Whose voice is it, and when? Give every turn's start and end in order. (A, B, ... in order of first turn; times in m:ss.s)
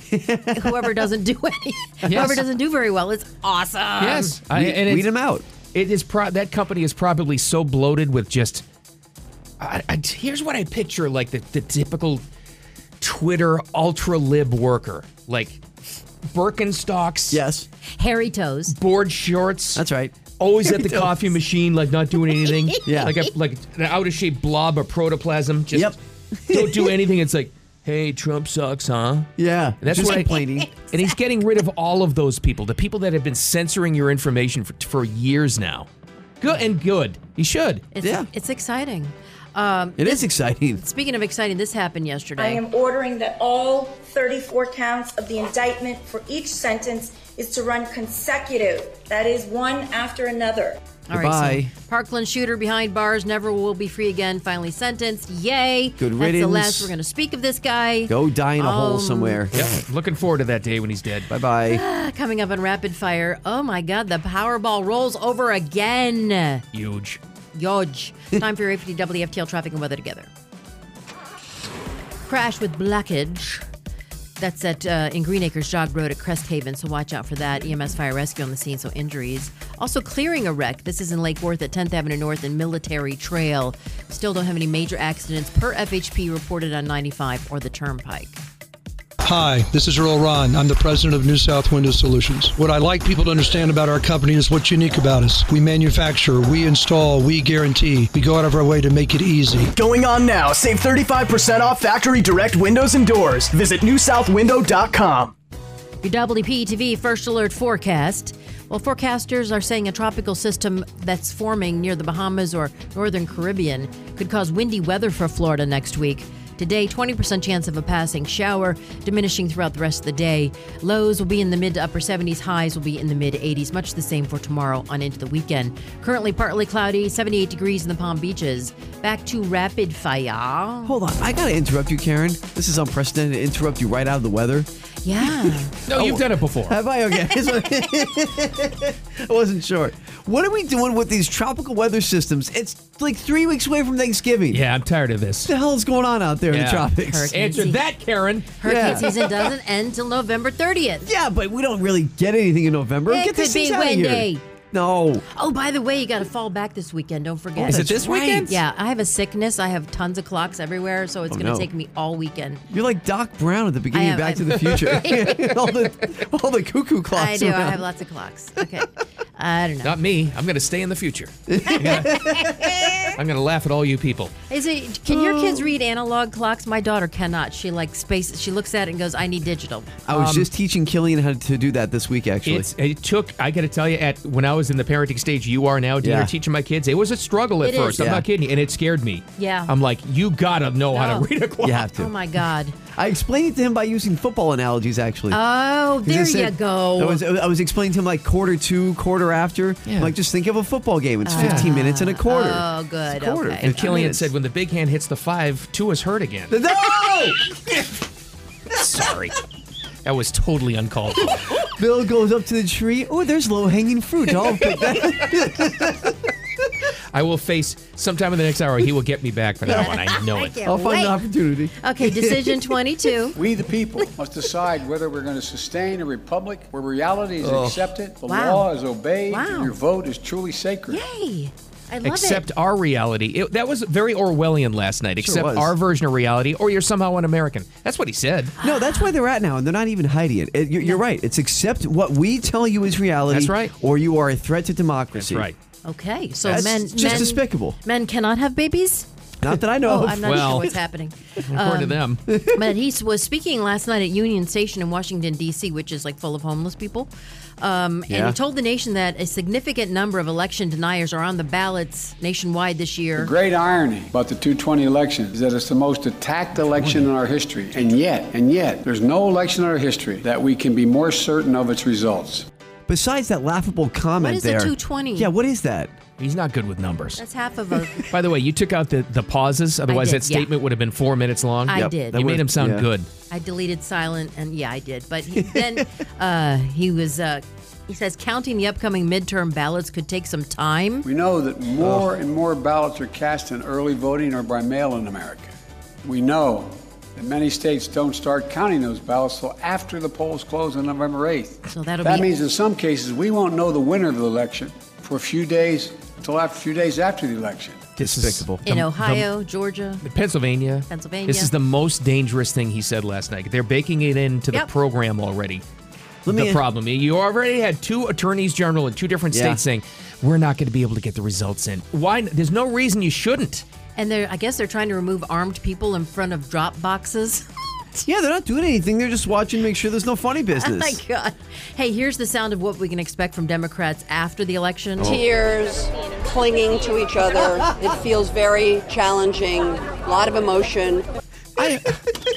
0:00.1-0:01.1 A
0:00.5-0:04.4 B
0:02.0-0:02.4 A
0:02.1-0:02.4 C
0:04.0-0:05.1 C
0:04.5-0:05.4 A
0:05.7-0:08.6 C
0:09.6-0:12.2 C
0:13.0-0:15.6 C
0:16.3-0:17.4 C
0:17.3-0:17.7 A
0:18.0-0:18.7 B
0:18.7-0:19.8 C
0:19.8-0:21.3 A
0:20.4-0:26.0 C
0:22.5-0:23.1 B
0:22.8-0:23.2 A
0:25.7-0:26.9 A
0:26.5-0:29.3 C
0:29.4-0:30.7 A
0:29.8-0:35.9 C
0:30.0-0:31.1 B
0:36.4-0:37.8 C
0:37.9-0:42.6 B
0:38.0-0:38.3 A
0:40.0-0:40.8 A
0:42.4-0:50.8 D
0:51.1-0:59.4 B
0:51.1-0:51.7 A
0:56.0-0:56.9 A
0:58.1-0:59.8 A
0:59.5-1:01.3 C
1:01.3-1:01.8 A
1:01.7-1:06.6 B
1:06.7-1:07.2 C
1:07.5-1:10.3 B
1:12.2-1:13.6 B
1:14.4-1:28.4 B
1:29.2-1:39.7 E
1:39.7-1:45.3 F
1:46.0-2:10.9 B
2:10.8-2:14.7 A
2:15.0-2:15.7 B
2:15.2-2:24.6 A
2:15.8-2:16.8 C
2:17.4-2:17.6 B
2:24.5-2:25.5 C
2:25.4-2:27.4 A
2:26.5-2:29.2 C
2:27.0-2:27.8 B
2:28.6-2:31.1 B
2:28.6-2:29.1 A
2:31.0-2:35.2 A
2:33.0-2:34.4 B
2:35.3-2:37.9 B
2:37.6-2:38.6 A
2:37.6-2:38.6 C
2:38.4-2:42.6 B
2:41.3-2:41.7 A
2:42.7-2:47.8 A
2:43.9-2:45.6 B
2:47.1-2:50.0 B
2:49.8-2:52.3 C
2:51.5-2:53.1 A
2:51.7-2:53.1 B
2:53.1-2:54.3 C
2:54.5-2:59.9 B
2:55.1-2:55.7 A
3:00.1-3:02.7 A
3:00.1-3:00.5 C
3:02.4-3:11.9 C
3:06.0-3:06.3 A
3:07.6-3:08.0 B
3:08.0-3:08.2 A
3:09.4-3:09.7 B
3:10.9-3:11.3 B
3:11.6-3:12.1 A
3:11.9-3:12.8 B
3:12.9-3:15.4 A
3:15.3-3:17.2 B
3:16.0-3:24.3 A
3:19.9-3:20.1 C
3:21.2-3:23.8 B
3:21.4-3:21.7 C
3:23.6-3:26.5 C
3:26.5-3:27.8 A
3:28.7-3:29.4 C
3:30.0-3:31.5 C
3:31.6-3:36.3 A
3:37.1-3:40.6 C
3:39.6-3:41.2 B
3:39.7-3:40.0 A
3:40.6-3:42.7 A
3:41.8-3:43.4 B
3:43.3-3:51.0 G
3:47.4-3:47.8 A
3:48.3-3:48.7 B
3:49.3-3:49.7 B
3:50.9-3:52.5 B
3:52.0-3:58.5 C
3:55.2-3:55.7 A
3:58.6-4:05.5 A
3:58.6-3:59.1 B
4:03.3-4:03.7 C
4:05.1-4:05.6 C
4:05.8-4:09.1 B
4:06.4-4:07.8 A
4:07.0-4:07.3 C
4:09.4-4:10.8 A
4:09.8-4:23.3 B
4:10.2-4:10.7 C
4:11.5-4:12.2 C
4:12.3-4:12.7 A
4:18.1-4:18.4 A
4:23.2-4:32.5 G
4:26.6-4:27.0 C
4:32.9-4:35.9 A
4:34.2-4:35.3 B
4:36.2-4:37.2 C
4:37.2-4:38.1 B
4:38.0-4:43.1 C
4:39.9-4:40.5 B
4:41.6-4:42.2 B
4:41.7-4:42.9 A
4:43.3-4:51.0 B
4:51.0-5:07.8 G
4:51.8-4:52.1 A
5:01.7-5:02.3 B
5:08.0-5:08.6 A
5:08.0-5:09.3 C
5:08.6-5:10.0 B
5:10.0-5:15.6 C
5:10.9-5:11.5 B
5:16.2-5:16.6 A
5:16.3-5:23.6 C
5:19.3-5:19.6 A
5:24.0-5:27.5 B
5:28.0-5:31.0 A
5:30.6-5:35.2 B
5:35.0-5:35.3 A
5:35.1-5:41.0 H
5:41.6-5:42.0 C